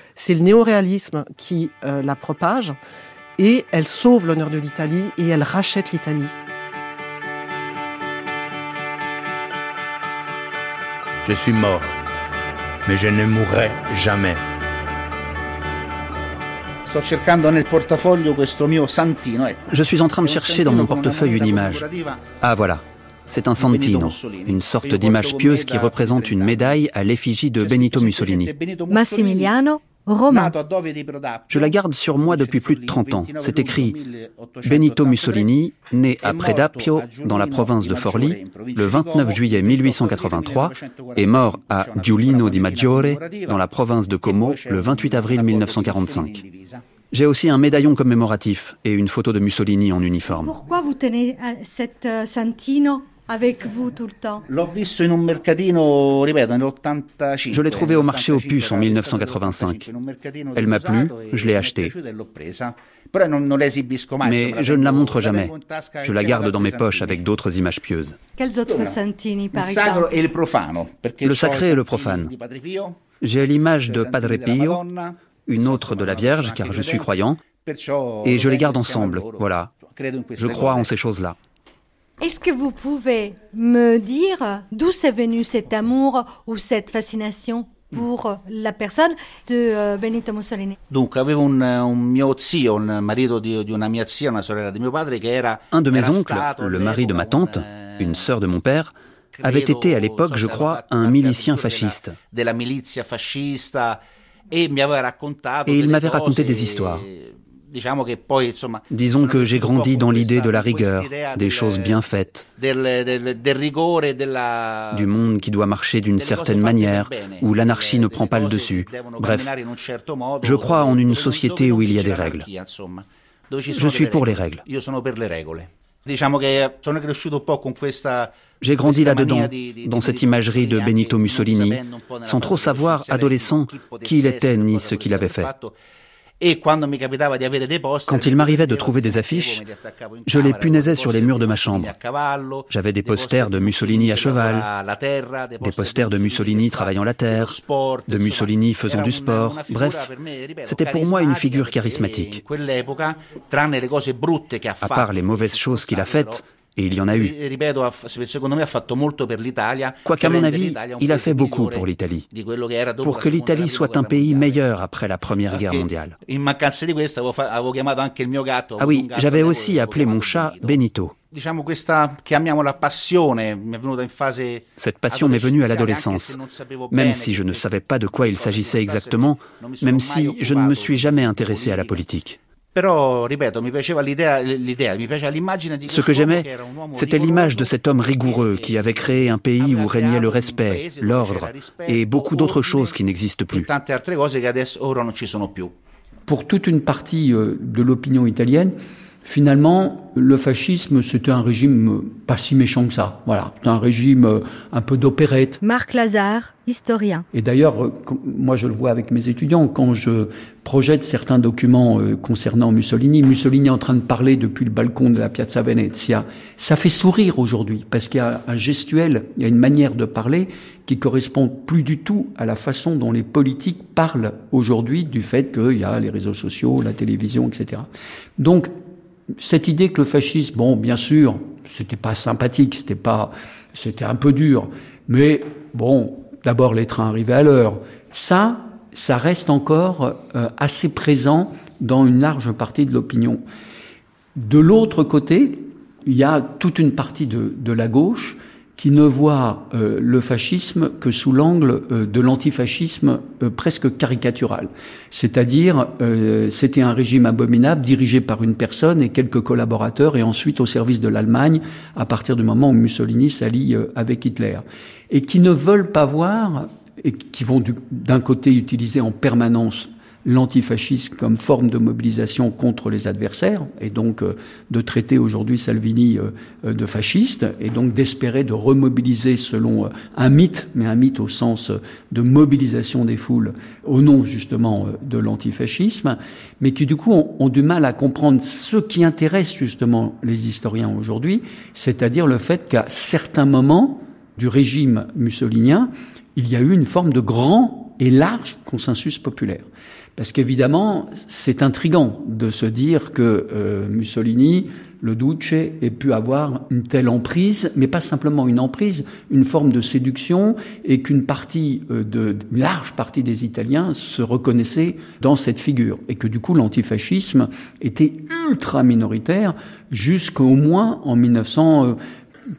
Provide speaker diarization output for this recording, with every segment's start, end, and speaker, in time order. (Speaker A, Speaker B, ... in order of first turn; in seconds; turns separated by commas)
Speaker A: 0.1-2.8, Speaker A: 3.4-6.3, Speaker B: 11.2-12.0, Speaker B: 12.9-14.4, Speaker C: 16.9-22.2, Speaker D: 19.7-21.9, Speaker D: 22.4-28.5, Speaker C: 23.6-26.8, Speaker C: 27.6-29.5, Speaker E: 28.9-30.6, Speaker C: 30.3-35.5, Speaker D: 31.5-34.0, Speaker D: 34.6-46.4, Speaker C: 36.2-43.6, Speaker C: 44.2-46.8, Speaker D: 47.1-50.5, Speaker E: 50.3-54.4, Speaker C: 54.5-67.3, Speaker D: 57.5-59.9, Speaker D: 60.5-61.9, Speaker D: 64.2-68.2, Speaker E: 68.4-70.2, Speaker C: 68.7-69.0, Speaker C: 69.5-73.0, Speaker D: 71.2-72.3, Speaker D: 73.2-74.8, Speaker C: 73.9-80.9, Speaker D: 75.5-77.4, Speaker D: 78.2-79.7, Speaker D: 80.4-81.4, Speaker E: 82.2-90.8, Speaker C: 90.9-98.2, Speaker D: 95.7-102.2, Speaker C: 99.3-111.9, Speaker D: 105.7-107.1, Speaker D: 108.9-112.5, Speaker C: 112.5-115.2, Speaker D: 114.9-119.5, Speaker C: 116.2-135.7, Speaker D: 120.4-122.5, Speaker D: 123.7-124.6, Speaker D: 128.6-135.5, Speaker C: 136.4-156.4, Speaker D: 138.1-139.6, Speaker D: 140.2-141.9, Speaker D: 142.7-144.7, Speaker D: 145.6-150.1, Speaker D: 150.6-152.4, Speaker D: 154.8-157.3, Speaker C: 157.0-164.6, Speaker D: 160.0-162.3, Speaker D: 163.0-166.2, Speaker C: 165.5-170.8, Speaker D: 168.8-171.1, Speaker C: 171.3-182.0, Speaker D: 174.8-182.4, Speaker C: 182.7-192.9, Speaker D: 185.9-193.7, Speaker C: 193.5-195.7, Speaker F: 196.3-205.6, Speaker E: 205.6-207.3, Speaker F: 207.3-228.7, Speaker F: 229.4-243.4, Speaker F: 244.4-322.0